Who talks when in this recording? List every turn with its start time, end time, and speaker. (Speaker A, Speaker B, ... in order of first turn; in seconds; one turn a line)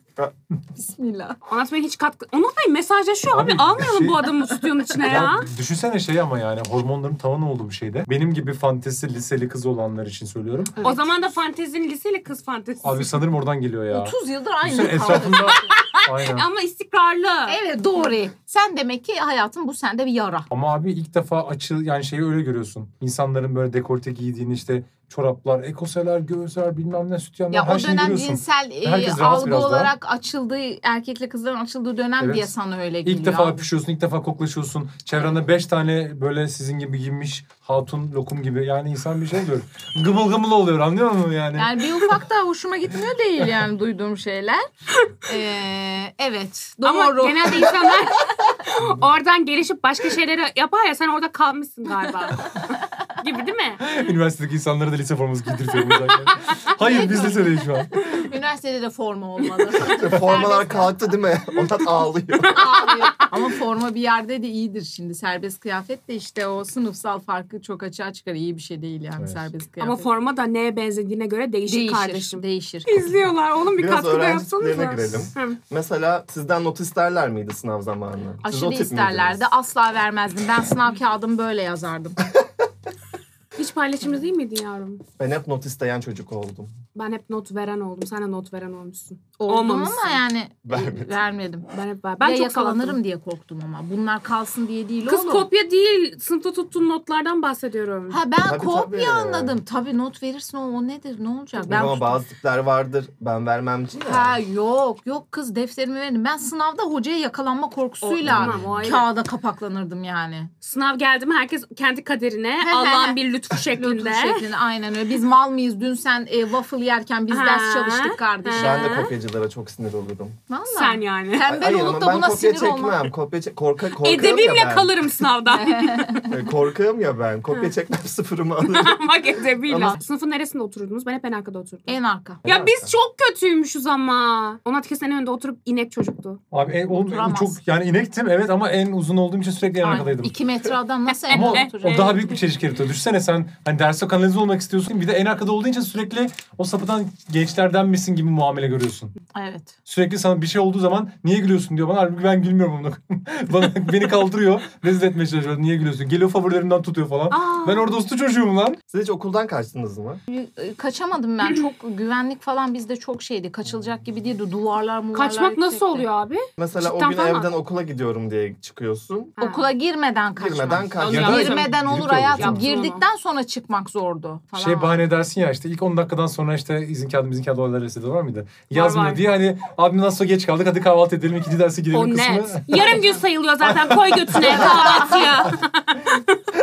Speaker A: 0.8-1.4
Speaker B: 1.5-5.5
Speaker C: 3.3-4.2
Speaker C: 5.0-10.8
Speaker A: 10.8-11.1
Speaker B: 10.8-13.1
Speaker C: 12.8-16.4
Speaker A: 13.9-15.7
Speaker B: 15.5-17.6
Speaker A: 17.5-20.5
Speaker C: 20.5-29.9
Speaker A: 27.5-33.7
Speaker C: 32.2-32.5
Speaker C: 33.0-41.8
Speaker A: 41.5-44.6
Speaker A: 45.2-48.5
Speaker B: 46.8-53.9
Speaker C: 53.8-57.9
Speaker A: 56.8-61.0
Speaker D: 59.8-62.7
Speaker A: 62.5-70.0
Speaker B: 62.5-63.3
Speaker B: 69.8-75.6
Speaker A: 71.7-72.9
Speaker D: 73.8-79.4
Speaker A: 78.4-82.2
Speaker B: 83.6-85.0
Speaker D: 85.2-86.7
Speaker B: 86.9-90.2
Speaker A: 89.4-91.7
Speaker D: 90.7-91.2
Speaker B: 91.7-93.0
Speaker A: 92.2-95.5
Speaker B: 95.0-98.2
Speaker A: 98.1-102.2
Speaker D: 98.4-99.6
Speaker D: 101.7-104.4
Speaker A: 104.0-110.5
Speaker B: 108.0-109.1
Speaker D: 108.2-108.8
Speaker B: 110.6-114.4
Speaker A: 112.6-118.9
Speaker B: 117.3-119.1
Speaker D: 118.5-120.4
Speaker A: 120.5-123.1
Speaker B: 120.7-121.5
Speaker D: 121.5-124.9
Speaker B: 124.0-126.3
Speaker A: 125.5-126.3
Speaker D: 126.3-129.0
Speaker B: 128.7-136.4
Speaker A: 129.7-130.0
Speaker A: 131.9-132.4
Speaker D: 132.4-132.9
Speaker C: 136.5-140.3
Speaker A: 136.9-137.6
Speaker A: 139.8-142.3
Speaker B: 141.1-142.3
Speaker C: 141.3-149.1
Speaker A: 149.3-149.8
Speaker C: 149.8-158.8
Speaker B: 157.3-157.9
Speaker D: 158.9-160.2
Speaker A: 160.3-166.1
Speaker B: 165.1-167.5
Speaker D: 166.6-169.3
Speaker B: 169.4-169.7
Speaker A: 169.4-175.0
Speaker D: 170.4-171.7
Speaker B: 171.0-171.8
Speaker C: 171.1-172.7
Speaker B: 172.3-173.0
Speaker C: 174.6-184.6
Speaker B: 178.7-179.2
Speaker B: 181.9-186.4
Speaker A: 184.5-185.3